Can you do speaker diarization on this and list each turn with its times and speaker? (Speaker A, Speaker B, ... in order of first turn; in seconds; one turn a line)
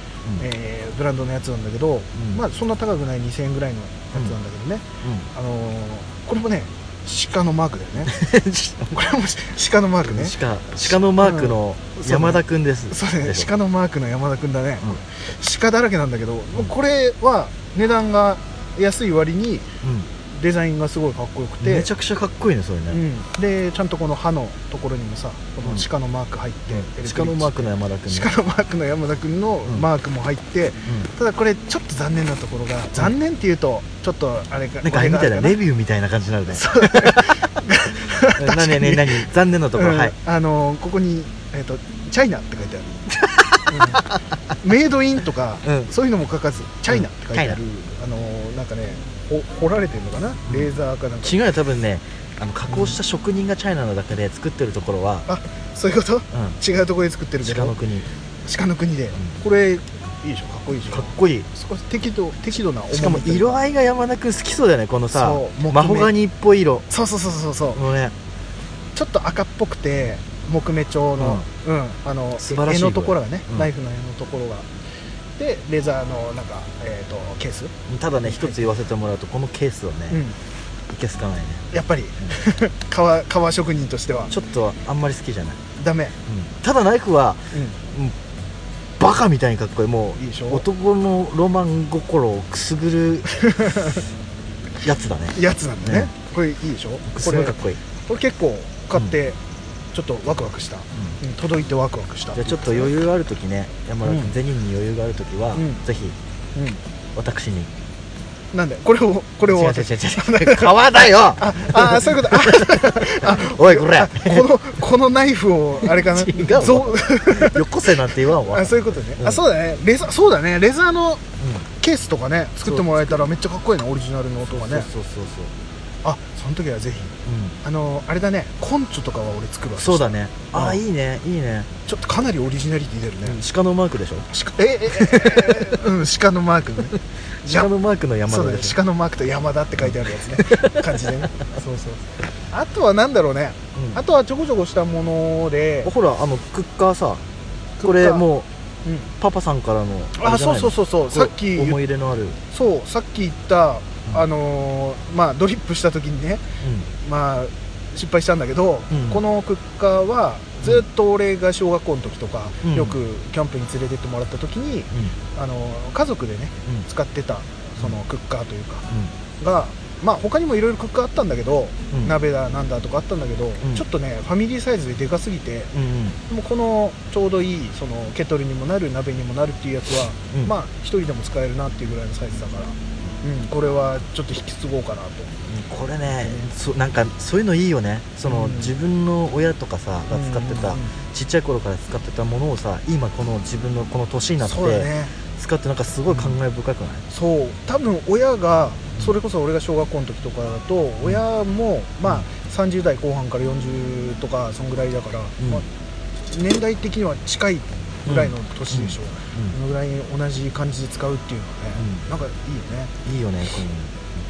Speaker A: 0.4-8.2
Speaker B: 2.1-2.4
Speaker B: 5.0-5.3
Speaker B: 8.1-9.0
Speaker A: 8.9-19.7
Speaker B: 10.1-13.5
Speaker B: 19.8-20.1
Speaker A: 20.3-21.9
Speaker B: 21.6-23.0
Speaker A: 22.9-35.6
Speaker B: 25.6-25.9
Speaker B: 26.7-28.3
Speaker B: 34.8-37.4
Speaker A: 36.5-43.1
Speaker B: 38.3-40.2
Speaker B: 43.2-44.0
Speaker A: 43.7-44.1
Speaker A: 44.6-51.4
Speaker B: 45.6-45.9
Speaker B: 46.9-47.6
Speaker B: 51.2-55.3
Speaker A: 52.7-53.0
Speaker A: 55.3-57.8
Speaker B: 56.3-56.6
Speaker B: 57.4-58.1
Speaker A: 58.5-63.6
Speaker B: 60.9-61.5
Speaker B: 62.9-66.9
Speaker A: 65.1-66.1
Speaker A: 66.9-67.8
Speaker B: 67.8-68.2
Speaker A: 69.0-74.7
Speaker B: 71.2-71.5
Speaker B: 72.4-73.7
Speaker A: 75.4-77.7
Speaker B: 77.9-80.2
Speaker A: 78.2-78.7
Speaker A: 80.1-80.4
Speaker B: 80.9-81.7
Speaker A: 81.7-84.3
Speaker B: 84.3-85.6
Speaker A: 85.8-86.2
Speaker B: 86.3-88.2
Speaker A: 87.5-87.8
Speaker B: 89.0-93.8
Speaker A: 90.2-90.7
Speaker A: 93.4-94.0
Speaker B: 94.8-96.1
Speaker A: 95.3-97.5
Speaker B: 97.1-97.8
Speaker A: 98.1-99.4
Speaker A: 99.9-102.9
Speaker B: 102.3-106.2
Speaker A: 104.0-104.3
Speaker A: 105.5-105.8
Speaker A: 106.5-106.8
Speaker B: 107.2-107.7
Speaker A: 108.5-121.2
Speaker B: 109.5-114.5
Speaker B: 115.8-119.4
Speaker B: 121.4-121.7
Speaker A: 121.8-124.9
Speaker B: 122.6-123.3
Speaker B: 124.5-125.5
Speaker A: 126.0-130.8
Speaker B: 127.2-127.6
Speaker B: 129.8-131.7
Speaker A: 131.9-133.4
Speaker B: 133.2-134.3
Speaker A: 134.3-137.7
Speaker B: 134.9-135.7
Speaker B: 137.4-138.8
Speaker A: 138.3-145.9
Speaker B: 139.8-141.2
Speaker B: 143.8-144.0
Speaker B: 145.8-147.2
Speaker A: 147.8-148.2
Speaker B: 147.8-148.5
Speaker B: 149.2-152.4
Speaker A: 150.2-151.8
Speaker A: 152.5-156.4
Speaker B: 156.6-156.9
Speaker A: 157.0-168.9
Speaker B: 158.9-159.2
Speaker B: 162.6-163.0
Speaker A: 169.4-175.7
Speaker B: 175.7-176.2
Speaker A: 176.3-185.3
Speaker B: 185.5-197.1
Speaker A: 186.2-186.5
Speaker A: 188.2-188.7
Speaker A: 190.1-191.0
Speaker A: 194.4-195.2
Speaker A: 196.1-196.3
Speaker A: 197.1-205.7
Speaker A: 206.3-212.9
Speaker B: 208.1-209.6
Speaker B: 211.8-212.0
Speaker B: 213.1-214.0